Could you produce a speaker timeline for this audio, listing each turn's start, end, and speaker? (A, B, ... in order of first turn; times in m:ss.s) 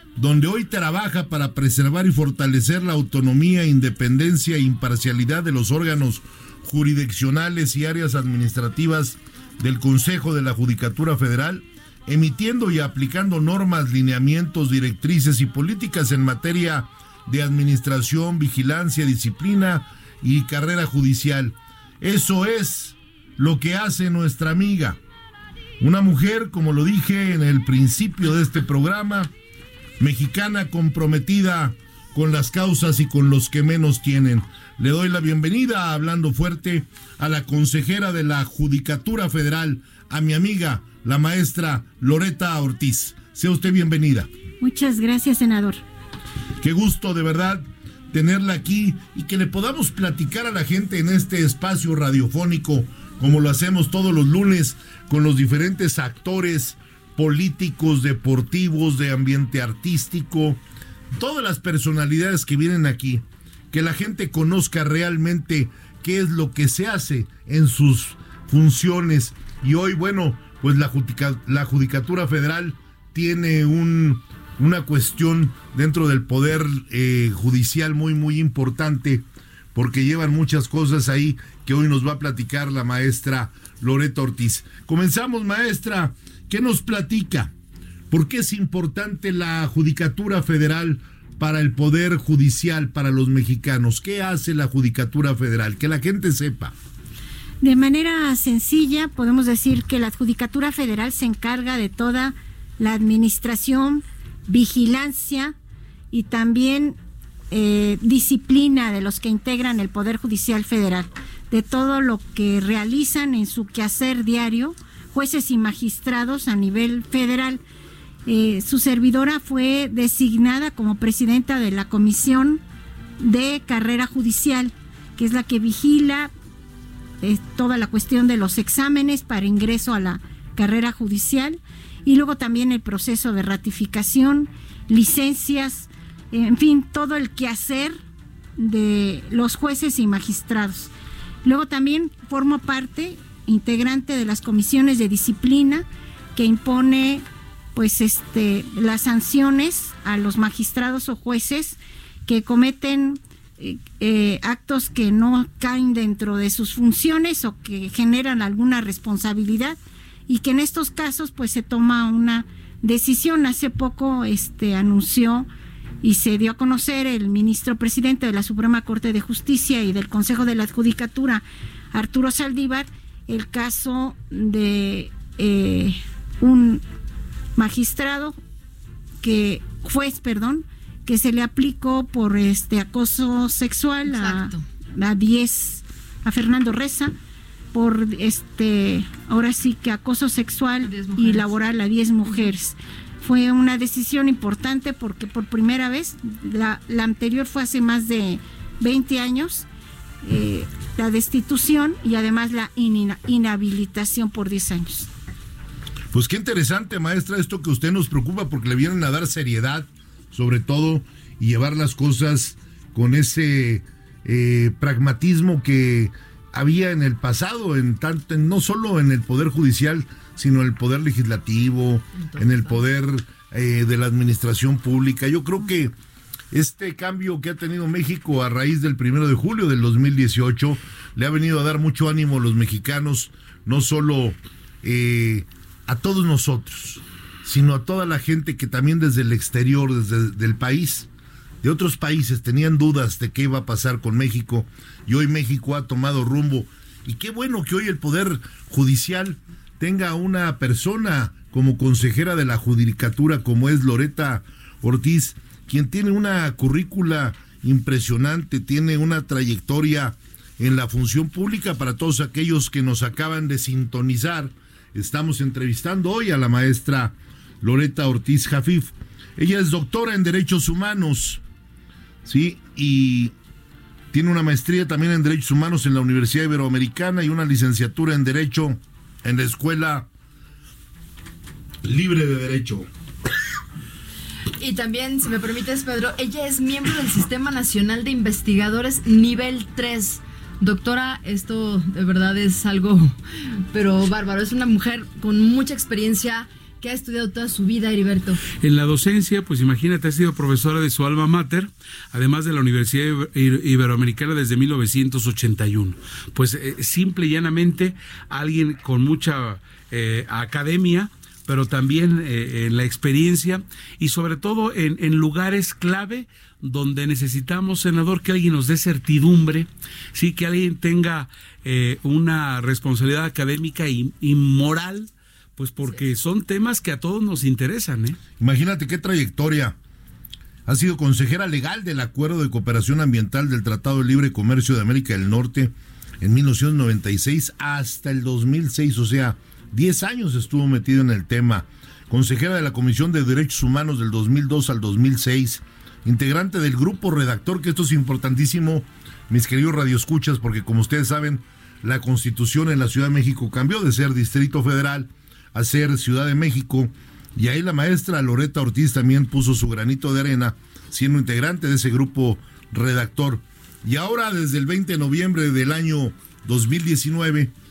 0:00.2-0:25.0 A
0:25.8-0:29.3 A
0:30.0-0:44.3 A
0:44.6-0:45.8 B
0:46.6-1:00.6 A
1:01.1-1:27.5 A
1:28.1-1:36.7 A
1:37.6-1:45.5 B
1:46.1-1:47.0 B
1:47.5-1:57.6 B
1:58.3-2:02.6 B
2:03.2-2:06.3 B
2:07.2-2:18.0 B
2:18.6-2:20.9 B
2:21.4-2:27.2 B
2:27.8-2:45.5 B
2:46.0-2:56.8 B
2:57.6-2:58.4 B
2:59.2-3:07.1 B
3:04.1-3:04.6 C
3:07.7-3:19.7 B
3:10.8-3:11.6 C
3:20.2-3:25.1 B
3:26.1-3:45.9 A
3:42.2-3:42.8 C
3:46.5-4:01.1 A
4:01.6-4:31.4 A
4:32.2-4:33.3 A
4:34.1-4:40.1 A
4:41.8-4:42.9 A
4:44.6-4:53.2 C
4:53.7-4:58.4 C
4:58.6-5:28.2 D
5:28.4-5:29.8 A
5:30.7-6:07.5 A